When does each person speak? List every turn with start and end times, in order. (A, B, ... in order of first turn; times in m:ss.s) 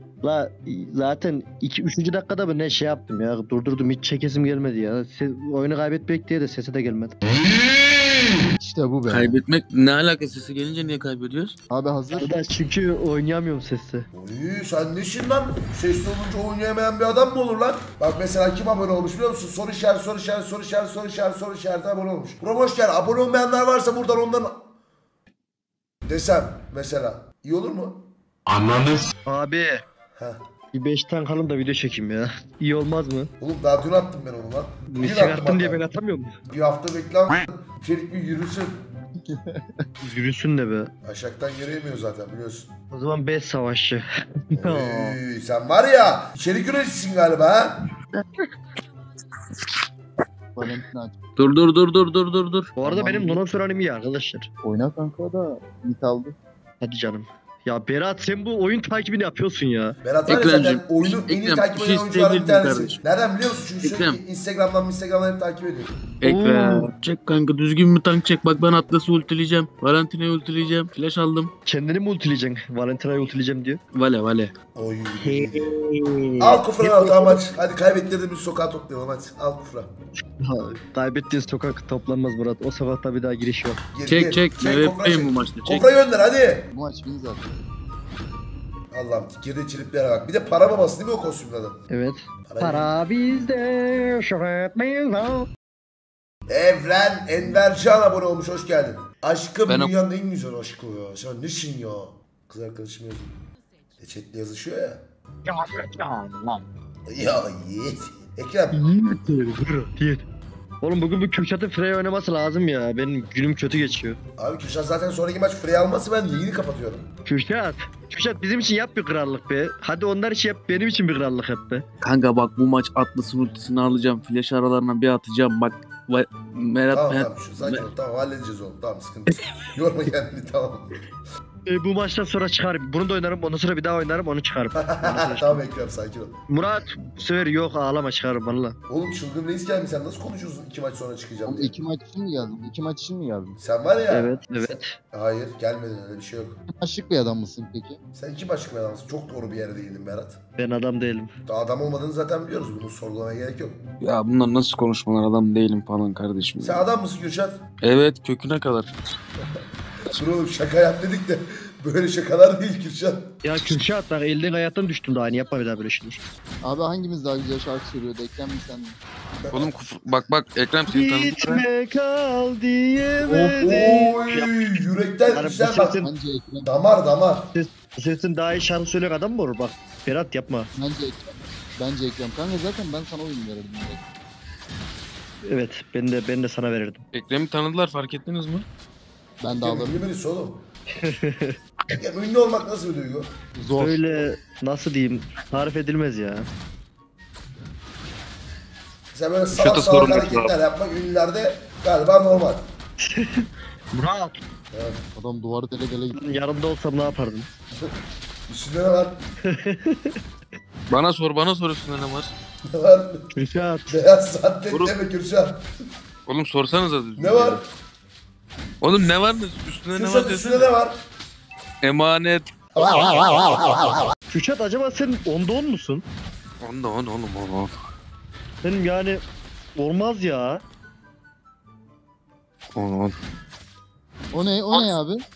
0:00.2-0:07.2 A
0:08.6-0:09.4 B
0:09.1-0:11.6 C
0:11.7-0:12.4 B
0:12.1-0:14.1 A
0:14.1-0:24.6 D
0:26.1-0:28.1 D
0:29.3-0:29.8 A
0:30.1-0:30.4 D
0:30.7-0:33.3 A
0:33.4-0:35.8 D
0:34.9-0:36.4 A
0:36.5-0:38.8 D
0:39.3-0:39.6 B
0:40.0-0:40.9 A
0:41.0-0:42.7 D
0:42.9-0:44.0 A
0:44.6-0:47.8 D
0:44.6-0:45.2 A
0:50.6-0:51.2 B
0:51.4-0:52.7 C
0:52.8-0:54.5 A
0:52.8-0:53.4 B
0:54.6-0:56.4 B
0:56.8-1:00.0 A
1:00.0-1:05.9 D
1:00.3-1:03.0 C
1:03.8-1:04.2 C
1:06.2-1:11.5 C
1:06.2-1:06.9 A
1:11.7-1:13.8 A
1:13.9-1:14.5 C
1:14.8-1:15.7 D
1:15.3-1:17.2 C
1:16.4-1:19.9 D
1:20.4-1:23.8 A
1:23.9-1:26.7 D
1:24.1-1:25.8 C
1:26.7-1:27.6 B
1:28.9-1:31.8 D
1:31.9-1:35.5 A
1:32.5-1:32.9 D
1:36.5-1:43.4 D
1:39.7-1:39.9 C
1:44.0-1:45.0 D
1:47.1-1:48.8 D
1:48.7-1:50.2 A
1:50.8-1:54.2 A
1:54.4-1:57.1 D
1:57.3-2:01.8 A
2:02.0-2:07.8 C
2:06.9-2:11.0 D
2:11.7-2:15.6 A
2:14.8-2:16.4 D
2:16.5-2:18.8 A
2:18.9-2:21.7 D
2:21.4-2:23.6 B
2:23.6-2:26.6 D
2:24.1-2:24.9 A
2:26.8-2:28.0 B
2:28.1-2:30.4 D
2:30.6-2:31.3 A
2:31.5-2:33.8 D
2:34.0-2:36.8 C
2:36.6-2:37.6 D
2:37.8-2:38.9 C
2:40.1-2:43.3 D
2:43.4-2:46.2 A
2:46.6-2:49.0 B
2:49.4-2:49.7 D
2:49.5-2:51.7 C
2:50.9-2:54.7 A
2:53.4-2:56.0 D
2:55.3-2:56.1 A
2:56.0-2:56.7 B
2:56.6-2:57.5 D
2:57.5-3:00.7 A
3:00.8-3:04.0 B
3:05.5-3:07.0 A
3:07.1-3:08.7 C
3:09.4-3:10.0 B
3:09.5-3:10.6 D
3:11.0-3:11.5 A
3:11.9-3:13.3 D
3:13.6-3:14.1 B
3:13.8-3:16.5 A
3:19.1-3:22.7 D
3:19.5-3:20.5 C
3:23.0-3:24.4 A
3:24.7-3:25.0 D
3:25.2-3:26.2 B
3:26.2-3:27.5 A
3:28.5-3:29.2 D
3:29.5-3:30.2 A
3:30.9-3:32.3 C
3:32.7-3:33.2 D
3:33.4-3:33.9 A
3:33.9-3:35.6 D
3:34.7-3:35.0 C
3:36.3-3:37.6 C
3:37.2-3:37.6 D
3:38.8-3:40.7 C
3:40.0-3:41.0 D
3:41.8-3:42.5 C
3:42.8-3:43.5 D
3:44.3-3:46.0 A
3:46.6-3:47.8 C
3:48.6-3:49.2 A
3:49.8-3:50.6 A
3:52.7-3:53.1 C
3:54.3-3:55.2 B